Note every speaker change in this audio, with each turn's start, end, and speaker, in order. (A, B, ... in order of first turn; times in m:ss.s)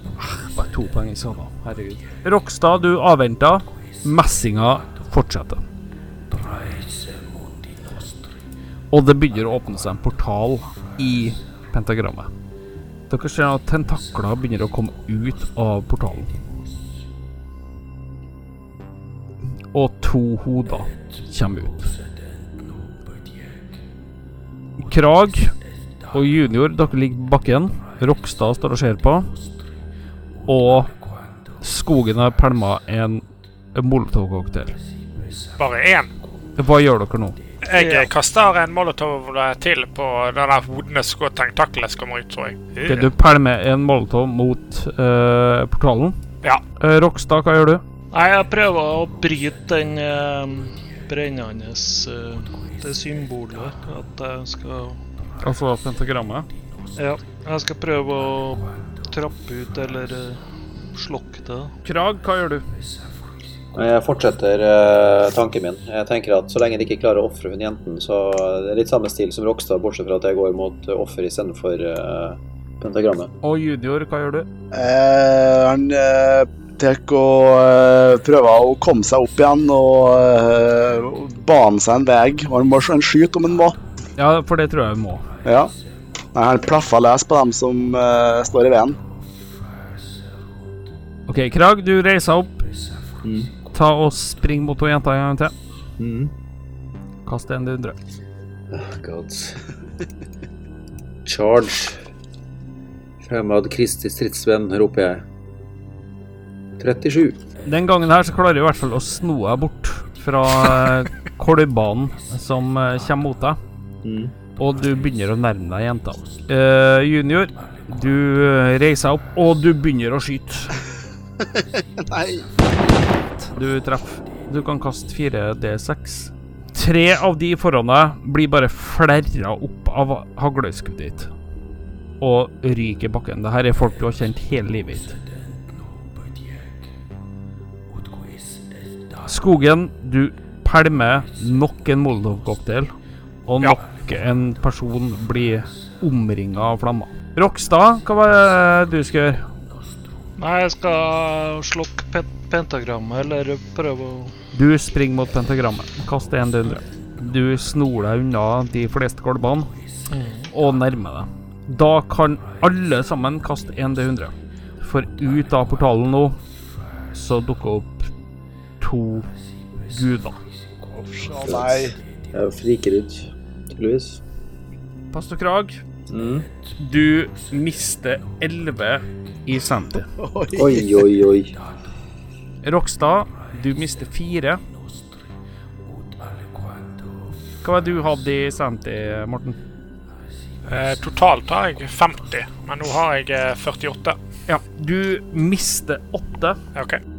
0:00.2-0:05.6 A
0:08.9-0:12.3 A
0:13.1-0:16.4 A
0:19.7-0:21.9 A
0:24.8-0:25.5 A
0:26.1-0:29.3 A
0:30.5-0:30.9 A
0:31.6-0:33.2 A
0:33.8-0:34.8 A
0:35.6-0:36.1 B
0:36.6-0:37.4 A
0:37.6-0:42.6 B
0:37.7-0:38.1 C
0:42.7-0:43.1 C
0:42.8-0:46.2 A
0:46.8-0:47.8 A
0:48.1-0:55.0 C
0:55.4-0:56.5 A
0:57.0-1:00.4 C
1:00.9-1:01.7 C
1:01.8-1:02.6 A
1:03.8-1:13.3 D
1:13.4-1:14.5 A
1:14.7-1:23.8 E
1:24.2-1:25.2 A
1:25.4-1:25.7 E
1:26.3-1:29.0 E
1:31.3-1:32.6 A
1:33.2-1:33.5 D
1:33.7-1:35.5 A
1:36.0-1:36.3 D
1:37.2-1:38.0 A
1:38.7-1:39.6 D
1:41.2-1:42.0 D
1:43.2-1:45.2 D
1:46.8-1:47.4 D
1:47.7-1:53.6 A
1:54.0-1:54.3 D
1:54.6-2:00.8 A
2:01.4-2:02.5 E
2:03.5-2:11.3 A
2:12.2-2:15.2 A
2:19.2-2:22.9 A
2:23.5-2:29.4 A
2:30.4-2:34.4 C
2:34.5-2:39.7 A
2:40.1-2:40.5 C
2:40.5-2:46.4 A
2:47.1-2:48.1 A
2:48.8-2:49.3 A
2:49.9-2:50.4 A
2:50.9-2:52.0 E
2:51.4-2:54.2 D
2:55.1-2:55.8 A
2:56.1-2:56.5 D
2:56.8-3:00.1 A
3:00.1-3:01.1 E
3:00.6-3:01.6 D
3:02.6-3:04.6 A
3:07.6-3:09.6 A
3:10.7-3:14.2 B
3:14.5-3:16.6 A